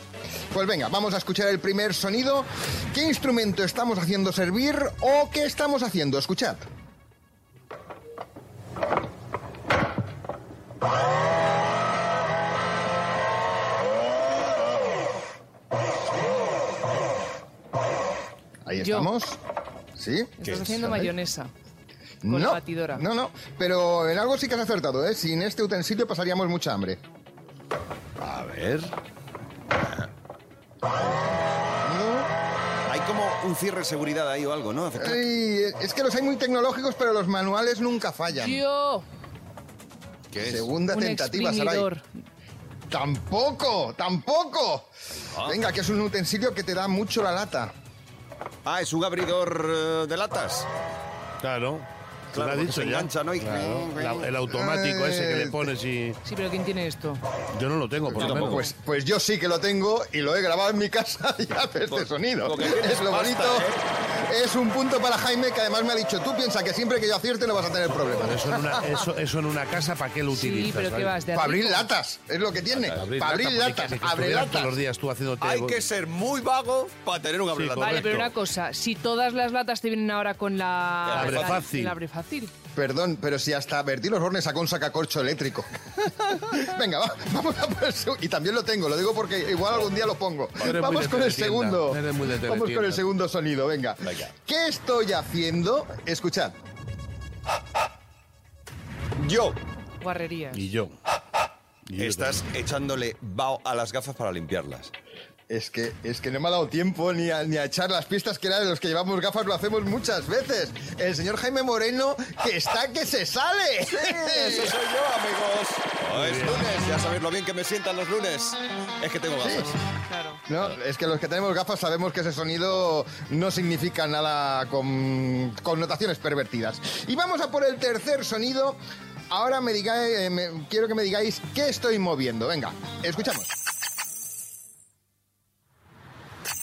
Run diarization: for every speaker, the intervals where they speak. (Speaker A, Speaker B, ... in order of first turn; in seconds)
Speaker A: 0.5-6.6, 18.6-19.4, 19.9-21.1, 22.2-27.0, 30.9-32.3, 35.0-38.6, 40.4-41.9, 42.9-44.9, 45.4-47.7, 54.5-55.7, 58.1-69.0, 71.3-74.8, 82.7-96.5, 105.5-114.7, 119.4-119.7, 120.5-128.8, 129.3-133.5
Speaker B: 18.8-19.1, 20.4-21.5, 22.3-23.1, 38.3-39.0, 40.9-42.0, 56.2-57.2, 70.3-71.9, 77.8-82.5, 100.0-100.7, 120.1-120.4
Speaker C: 20.4-20.8, 28.2-28.9, 32.9-35.2, 40.3-40.7, 45.3-45.6, 48.6-50.7, 52.3-54.3, 58.2-58.6, 61.9-63.8, 75.4-78.2, 81.0-81.6, 94.0-94.3, 99.2-99.6, 102.0-104.9, 113.9-119.7
Speaker D: 51.4-56.2, 57.5-58.6, 68.2-71.1, 72.9-75.8, 77.5-78.3, 81.1-81.9, 90.6-93.0, 100.5-101.0, 101.9-102.4, 116.1-116.7